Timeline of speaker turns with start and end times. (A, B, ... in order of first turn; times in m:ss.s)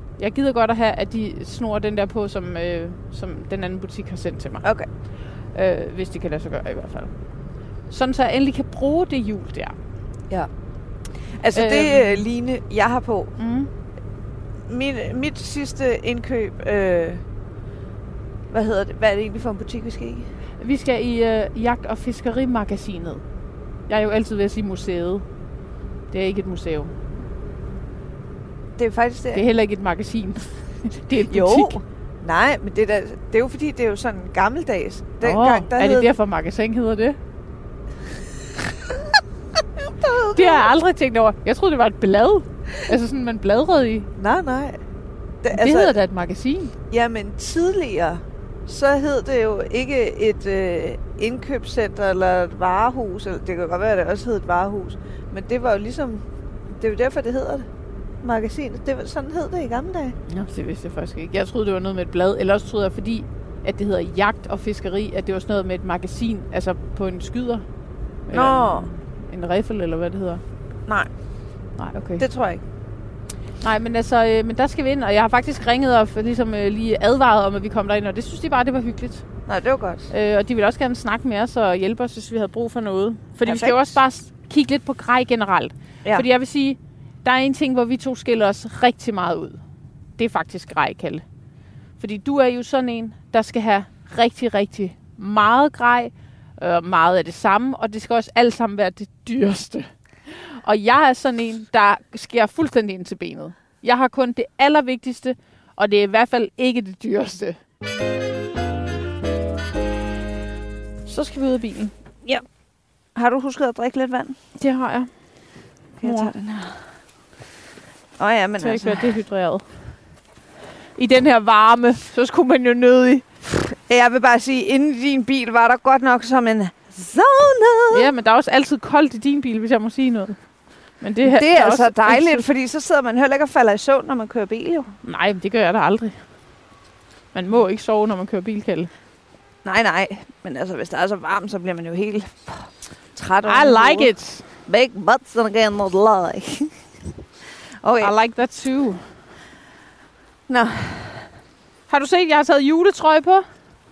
0:00.2-0:04.6 A
0:05.5-0:07.1 A
0:07.9-0:09.8 A
0:11.4-0:13.3 B
0:11.5-0:12.2 A
0:13.4-0:13.7 A
0:14.7-0:17.2 B
0:18.5-0:20.3 B
0:20.6-0:23.2 A
0:23.9-0:25.2 A
0:26.1-0:26.9 A
0:28.8-0:29.4 B
0:29.3-0:31.8 A
0:31.3-0:36.1 B
0:35.2-0:37.2 A
0:39.8-0:40.7 B
0:40.3-0:44.1 A
0:44.2-0:44.8 B
0:45.4-0:46.0 B
0:45.5-0:46.7 A
0:46.9-0:57.7 B
0:58.2-1:00.2 B
1:00.3-1:07.6 A
1:08.3-1:10.4 A
1:08.3-1:08.9 B
1:11.8-1:12.2 A
1:12.2-1:12.6 B
1:13.6-1:19.2 A
1:19.5-1:20.1 B
1:20.1-1:29.6 A
1:23.4-1:23.9 B
1:30.2-1:31.2 A
1:32.0-1:47.6 A
1:51.0-1:51.9 A
1:53.1-1:54.4 B
1:54.6-1:55.1 A
1:56.0-1:56.8 B
1:56.0-1:56.3 A
1:58.2-1:59.2 B
1:58.6-1:59.6 A
2:01.0-2:03.2 A
2:03.6-2:08.1 B
2:07.9-2:10.4 A
2:11.0-2:12.4 A
2:11.2-2:14.9 B
2:15.0-2:16.2 A
2:17.3-2:18.9 A
2:19.6-2:26.7 B
2:23.4-2:24.4 A
2:27.8-2:28.1 B
2:28.0-2:29.1 A
2:30.5-2:31.3 B
2:31.9-2:33.5 A